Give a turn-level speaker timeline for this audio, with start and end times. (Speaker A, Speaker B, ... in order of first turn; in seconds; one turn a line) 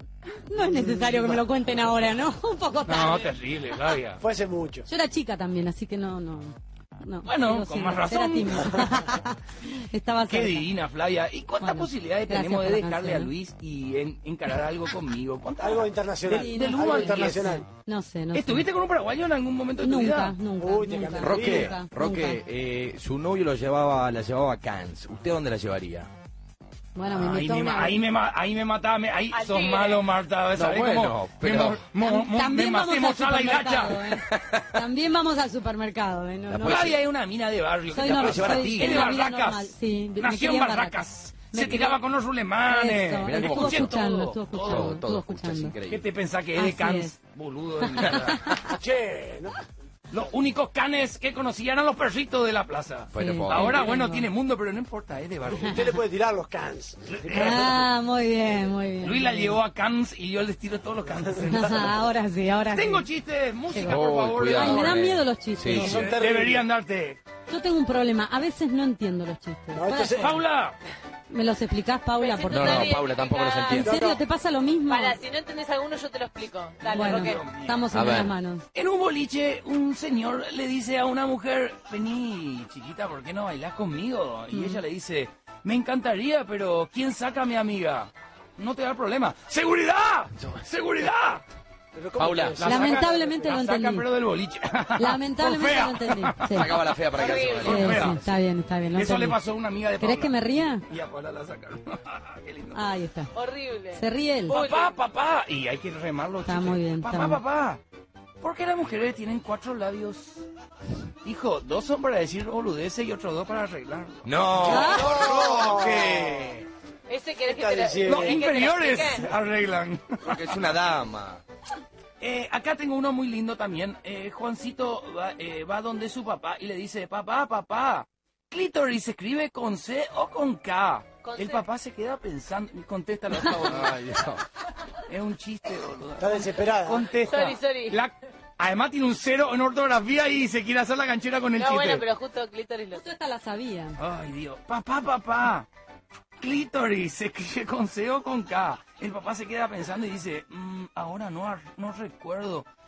Speaker A: 0.3-3.4
Speaker B: 0.6-1.5
Speaker C: 2.9-4.2
Speaker B: 4.2-4.9
Speaker A: 4.9-10.7
Speaker C: 7.2-9.1
Speaker C: 10.3-17.6
Speaker A: 11.6-13.3
Speaker B: 15.6-17.6
Speaker A: 16.3-18.6
Speaker C: 18.3-20.4
Speaker A: 19.8-22.4
Speaker B: 20.6-21.8
Speaker D: 21.2-26.1
Speaker A: 26.9-28.0
Speaker C: 27.1-34.2
Speaker E: 29.3-30.0
Speaker D: 30.6-31.8
Speaker A: 32.0-36.9
Speaker D: 34.3-34.8
Speaker D: 36.5-37.0
Speaker C: 36.6-45.0
Speaker A: 37.9-42.0
Speaker D: 38.0-39.1
Speaker A: 42.7-45.8
Speaker D: 43.2-44.0
Speaker D: 44.5-46.1
Speaker C: 45.9-48.6
Speaker A: 46.6-47.1
Speaker A: 47.8-48.8
Speaker B: 48.6-49.6
Speaker C: 50.1-55.9
Speaker D: 53.1-53.9
Speaker A: 53.2-54.3
Speaker B: 55.6-57.9
Speaker C: 57.1-57.8
Speaker A: 57.3-59.6
Speaker C: 59.0-61.9
Speaker A: 61.4-63.1
Speaker C: 62.7-65.1
Speaker A: 63.7-66.1
Speaker D: 63.8-66.0
Speaker B: 65.7-66.6
Speaker C: 65.7-67.2
Speaker A: 67.5-70.4
Speaker B: 69.7-70.4
Speaker C: 70.2-70.8
Speaker A: 71.3-73.0
Speaker E: 72.2-73.9
Speaker D: 72.5-74.0
Speaker A: 73.7-75.2
Speaker B: 73.8-74.2
Speaker E: 74.9-77.4
Speaker C: 76.8-77.9
Speaker A: 76.9-78.7
Speaker D: 77.9-78.3
Speaker C: 78.7-91.4
Speaker A: 84.5-84.8
Speaker B: 91.9-93.5
Speaker D: 92.2-92.6
Speaker C: 92.6-98.2
Speaker A: 92.6-94.1
Speaker A: 95.0-96.7
Speaker D: 96.5-98.3
Speaker E: 97.1-97.8
Speaker A: 97.6-99.4
Speaker C: 98.9-102.8
Speaker A: 100.0-100.8
Speaker A: 102.7-103.3
Speaker E: 103.3-105.0
Speaker A: 103.9-104.6
Speaker C: 104.5-107.8
Speaker A: 106.4-107.4
Speaker C: 108.4-110.4
Speaker C: 111.2-116.1
Speaker D: 114.2-116.6
Speaker A: 114.6-115.2
Speaker B: 114.7-116.4
Speaker E: 117.1-119.3
Speaker B: 117.5-118.4
Speaker C: 118.0-120.6
Speaker D: 120.2-121.4
Speaker C: 122.2-134.0
Speaker E: 131.2-131.6
Speaker D: 133.5-134.4
Speaker C: 135.0-142.1
Speaker B: 136.2-137.1
Speaker E: 137.2-138.0
Speaker E: 141.6-143.0
Speaker A: 142.9-144.0
Speaker C: 144.0-145.7
Speaker C: 146.4-152.7